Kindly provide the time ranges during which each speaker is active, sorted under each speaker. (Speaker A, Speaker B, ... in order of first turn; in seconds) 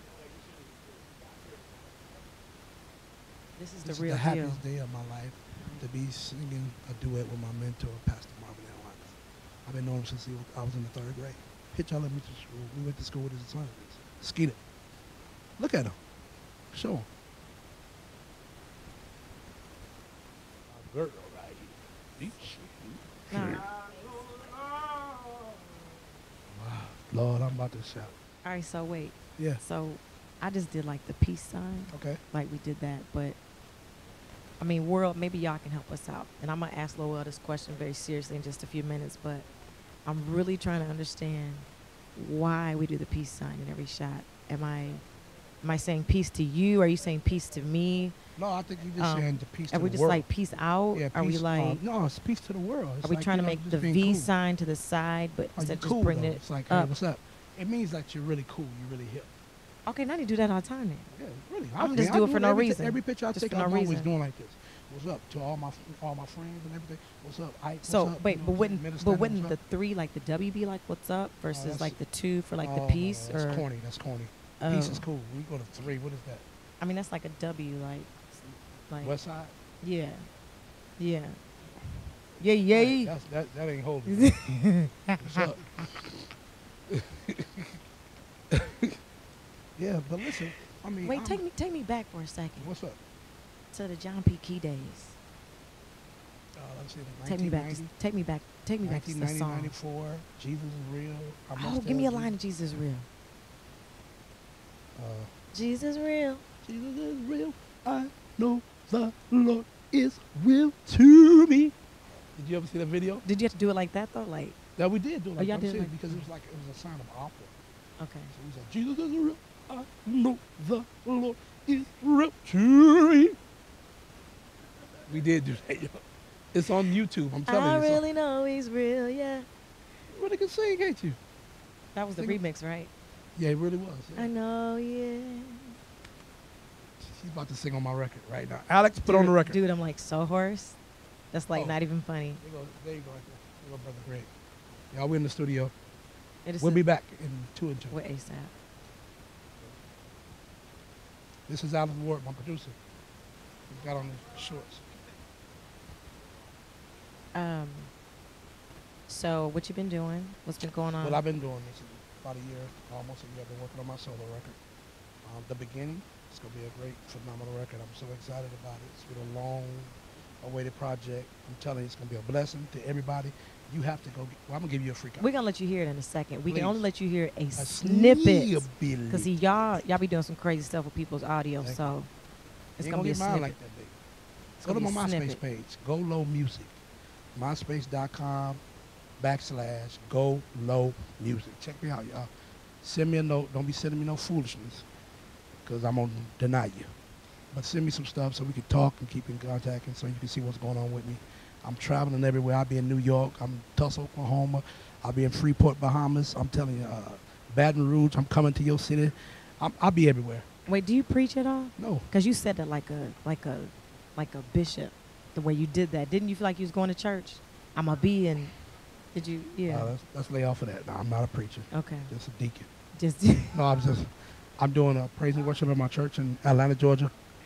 Speaker A: 3.6-4.6, 23.3-23.7, 28.4-33.4, 34.6-39.5, 40.0-45.0, 45.6-48.2, 49.0-51.8, 53.0-56.9, 59.9-61.1, 61.8-64.1, 67.8-73.7, 74.6-75.1, 76.8-79.2, 79.8-80.3, 81.0-81.4, 82.4-83.1, 84.1-85.4, 91.0-92.7, 93.7-95.2, 97.2-99.8, 101.6-103.1, 105.5-106.4, 113.2-114.6, 115.4-116.3, 118.0-118.3, 127.5-129.5, 131.9-132.9, 134.2-135.8, 139.0-140.8, 141.3-142.4, 146.4-146.9, 147.9-148.5, 157.3-157.9, 159.1-161.2, 175.2-182.1, 182.8-183.6, 184.6-185.4, 210.7-218.6, 219.1-219.9, 221.7-222.1, 222.9-223.6
Speaker B: 3.8-14.6, 15.6-16.0, 16.7-17.1, 20.7-23.6, 26.5-28.1, 31.9-32.2, 48.4-50.3, 50.9-54.3, 55.5-59.3, 61.1-69.6, 71.5-72.0, 72.6-76.5, 79.0-79.5, 82.7-84.5, 85.2-86.3, 86.9-87.7, 88.5-88.9, 89.8-91.4, 92.6-93.0, 96.5-97.9, 98.8-102.4, 105.0-105.3, 106.6-111.8, 112.3-113.2, 114.8-117.5, 118.3-123.4, 125.1-126.0, 126.5-128.0, 130.1-131.2, 132.2-132.4, 133.4-134.3, 137.0-139.6, 141.5-141.8, 142.4-144.3, 144.9-145.7, 146.6-148.0, 151.5-152.8, 153.7-154.8, 161.0-164.6, 165.2-175.3, 176.5-176.9, 177.6-179.9, 181.6-181.9, 182.8-183.9, 184.6-186.8, 187.3-188.6, 189.2-192.3, 192.8-194.9, 195.6-196.9, 197.5-210.5, 211.8-212.1, 219.7-222.7, 223.5-227.1